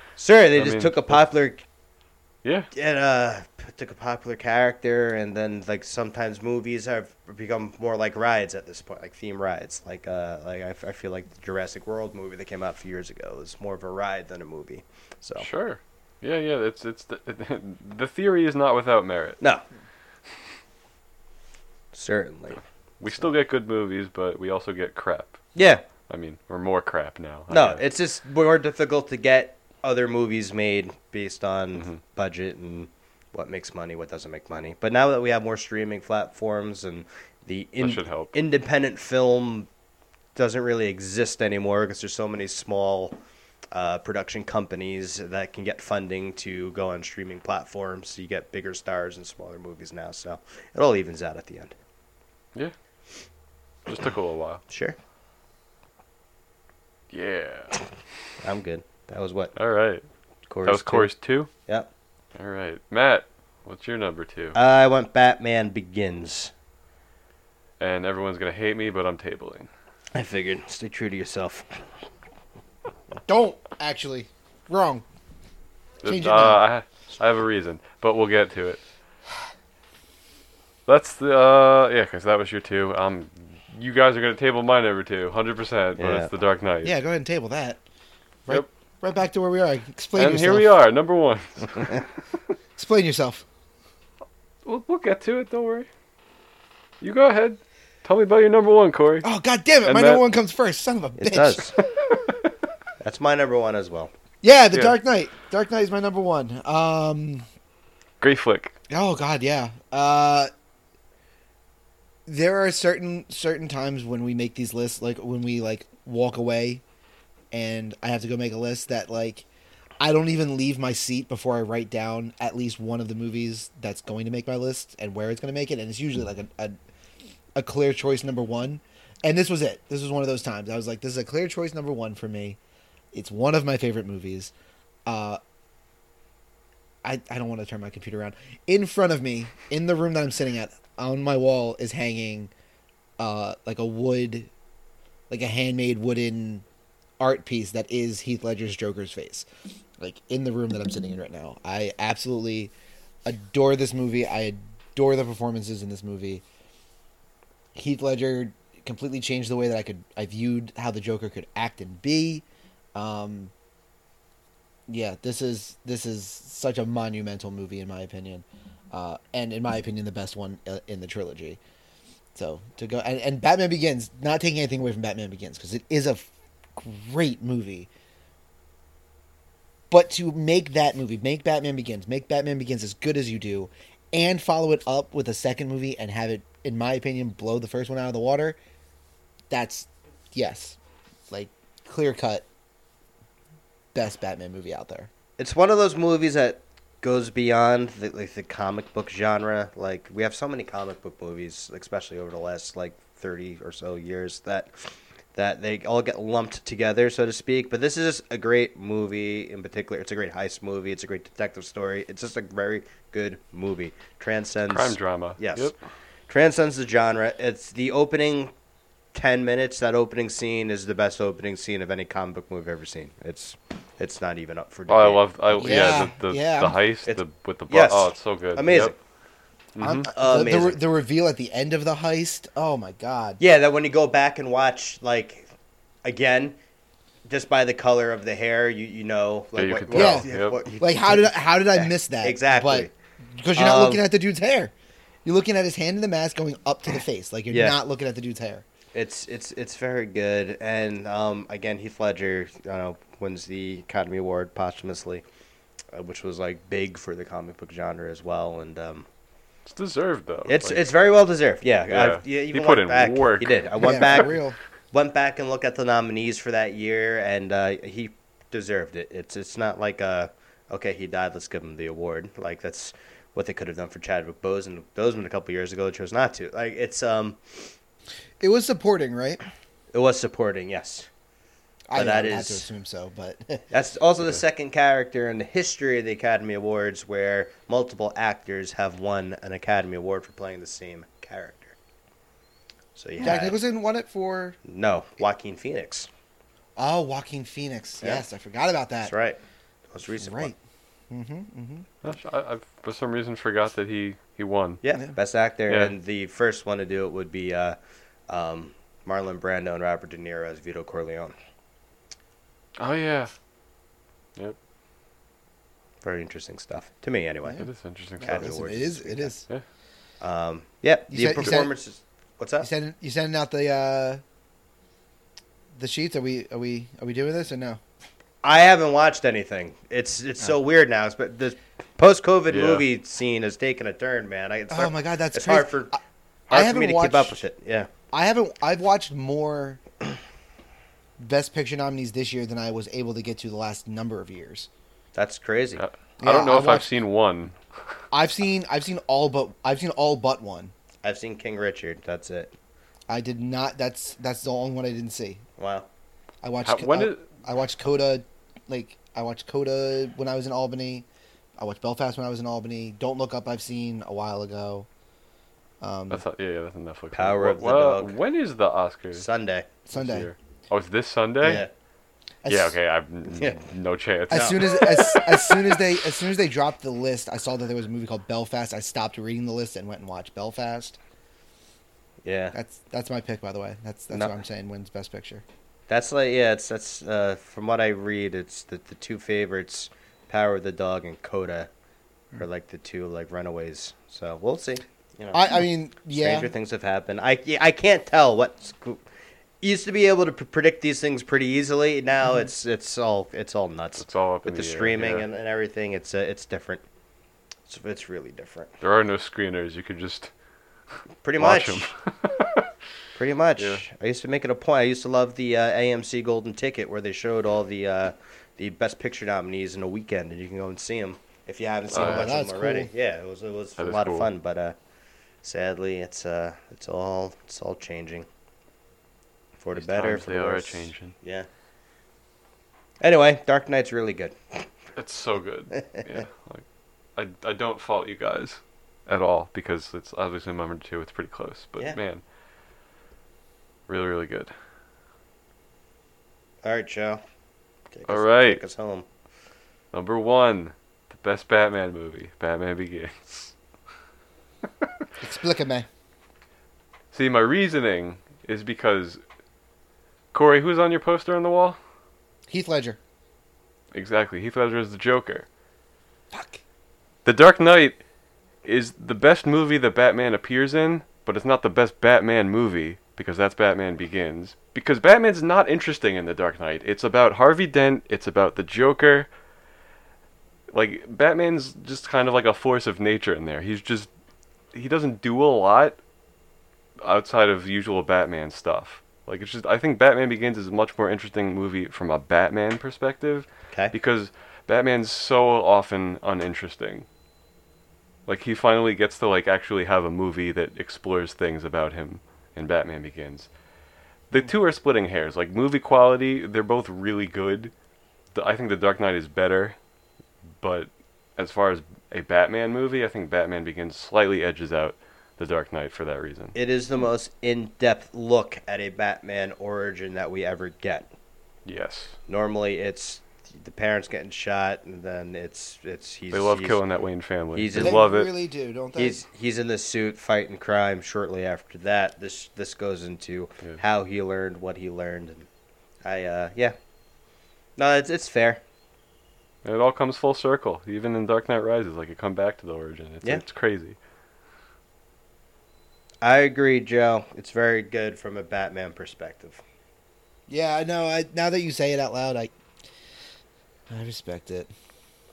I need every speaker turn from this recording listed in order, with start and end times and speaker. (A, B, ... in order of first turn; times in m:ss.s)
0:00.2-0:01.6 A
0:00.5-0:01.2 B
0:02.4-0:02.7 B
0:02.7-0:15.5 A
0:15.4-0:19.4 B
0:21.9-0:22.6 A
0:23.0-0:25.4 B
0:25.6-0:25.8 A
0:26.1-0:27.8 B
0:27.5-0:39.7 A
0:37.8-0:38.3 B
0:40.3-0:43.2 A
0:43.7-0:51.8 A
0:53.9-0:54.6 B
0:54.7-0:55.0 A
0:57.1-0:57.8 B
0:58.4-0:59.5 A
0:59.6-1:00.0 B
1:00.5-1:01.1 A
1:00.6-1:01.5 B
1:02.4-1:04.6 B
1:04.5-1:06.5 A
1:07.8-1:09.7 B
1:10.1-1:11.9 A
1:13.2-1:15.0 C
1:16.0-1:18.8 B
1:16.0-1:16.6 C
1:20.9-1:27.0 B
1:26.0-1:26.3 A
1:26.8-1:27.8 C
1:28.5-1:30.7 C
1:30.2-1:32.1 B
1:32.8-1:33.4 C
1:34.6-1:35.9 B
1:37.0-1:39.2 B
1:39.2-1:41.7 C
1:39.8-1:40.2 B
1:41.2-1:41.7 A
1:42.0-1:42.4 B
1:43.0-1:44.1 A
1:44.4-1:47.4 C
1:44.7-1:45.0 B
1:48.2-1:48.8 B
1:48.9-1:50.5 C
1:52.2-1:56.8 C
1:57.5-1:59.5 C
2:00.0-2:06.8 C
2:07.5-2:12.6 C
2:13.1-2:14.5 C
2:15.0-2:15.4 C
2:17.0-2:22.5 C
2:23.2-2:24.5 C
2:25.3-2:26.6 C
2:27.2-2:29.5 C
2:30.0-2:32.7 C
2:33.2-2:36.4 C
2:37.7-2:43.5 C
2:44.9-2:51.6 C
2:52.3-2:57.9 C
2:59.9-3:08.6 C
3:09.5-3:10.8 C
3:11.3-3:12.4 C
3:13.9-3:15.1 C
3:15.4-3:35.7 A
3:34.7-3:35.8 B
3:36.3-3:38.5 A
3:39.1-3:46.0 A
3:44.9-3:48.9 B
3:45.6-3:46.8 C
3:47.0-3:49.0 A
3:49.8-3:50.1 B
3:49.8-3:53.4 C
3:50.1-3:50.8 A
3:53.4-3:55.5 A
3:56.0-3:56.6 A
3:57.3-4:02.9 A
3:59.6-4:00.6 B
3:59.9-4:04.7 C
4:03.5-4:04.0 A
4:05.2-4:08.6 C
4:07.5-4:07.8 A
4:08.9-4:15.2 A
4:15.9-4:19.1 A
4:19.6-4:20.8 B
4:20.5-4:24.4 A
4:21.9-4:24.3 B
4:23.8-4:24.6 C
4:24.9-4:37.7 A
4:38.4-4:39.4 C
4:39.9-4:41.1 A
4:41.9-4:43.6 C
4:41.9-4:42.7 A
4:43.7-4:51.8 A
4:53.0-4:53.6 A
4:53.2-4:54.6 C
4:54.6-4:56.1 A
4:56.8-4:59.1 C
4:59.0-4:59.4 A
4:59.9-5:00.5 A
5:00.2-5:00.6 C
5:01.1-5:01.9 C
5:02.0-5:04.8 B
5:04.8-5:07.8 A
5:08.3-5:11.3 A
5:12.8-5:13.3 B
5:16.0-5:17.6 A
5:17.6-5:18.6 B
5:18.2-5:19.5 C
5:18.2-5:19.3 A
5:20.2-5:22.7 A
5:21.1-5:21.7 C
5:22.6-5:24.2 C
5:25.7-5:27.8 C
5:28.4-5:36.0 A
5:32.5-5:32.8 B
5:34.7-5:36.0 C
5:36.5-5:37.4 C
5:36.5-5:37.9 A
5:38.1-5:39.8 C
5:41.2-5:44.7 C
5:45.1-5:45.8 A
5:45.8-5:47.5 B
5:46.2-5:46.9 C
5:48.1-5:50.7 C
5:51.0-5:52.5 A
5:53.1-5:55.4 C
5:55.6-5:55.9 A
5:56.4-6:01.0 C
5:56.6-5:57.2 B
6:01.6-6:04.9 C
6:05.8-6:06.2 C
6:06.1-6:09.2 B
6:07.1-6:08.1 A
6:09.1-6:09.7 A
6:09.9-6:10.3 C
6:09.9-6:11.6 B
6:11.4-6:11.7 A
6:12.4-6:12.8 C
6:12.5-6:15.8 B
6:14.3-6:21.0 C
6:14.3-6:14.6 A
6:22.2-6:22.5 A
6:22.5-6:25.4 C
6:25.9-6:31.7 A
6:32.3-6:39.0 A
6:35.3-6:36.5 C
6:39.6-6:46.8 A
6:44.0-6:45.2 B
6:47.7-6:48.7 A
6:48.8-6:50.3 B
6:51.2-6:51.9 A
6:51.4-6:52.7 B
6:53.1-7:04.8 A
6:53.6-6:53.8 B
7:01.9-7:02.9 C
7:01.9-7:02.3 B
7:03.8-7:04.3 B
7:05.4-7:08.3 A
7:09.6-7:11.5 A
7:09.8-7:11.1 B
7:13.0-7:14.7 A
7:15.0-7:16.6 B
7:17.2-7:22.2 B
7:23.9-7:24.5 B
7:26.6-7:27.2 A
7:27.9-7:29.1 A
7:28.1-7:28.6 B
7:29.9-7:33.5 B
7:34.6-7:35.0 B
7:35.2-7:35.9 C
7:37.1-7:39.2 B
7:40.3-7:41.8 B
7:42.5-7:43.0 C
7:43.9-7:45.4 B
7:46.3-7:46.6 C
7:47.2-7:48.0 B
7:48.6-7:59.3 B
8:00.7-8:04.1 B
8:04.7-8:06.0 B
8:07.0-8:17.0 B
8:18.3-8:23.5 B
8:24.3-8:27.7 B
8:28.3-8:29.8 B
8:30.6-8:36.5 B
8:36.5-8:41.1 A
8:41.6-8:42.2 B
8:42.3-8:46.8 A
8:46.3-8:48.3 B
8:47.5-8:48.0 A
8:47.7-8:49.2 C
8:49.0-8:55.5 A
8:56.0-8:56.8 A
8:57.8-8:58.6 A
8:59.6-9:04.0 B
9:06.2-9:09.6 A
9:10.5-9:12.5 C
9:13.9-9:14.7 C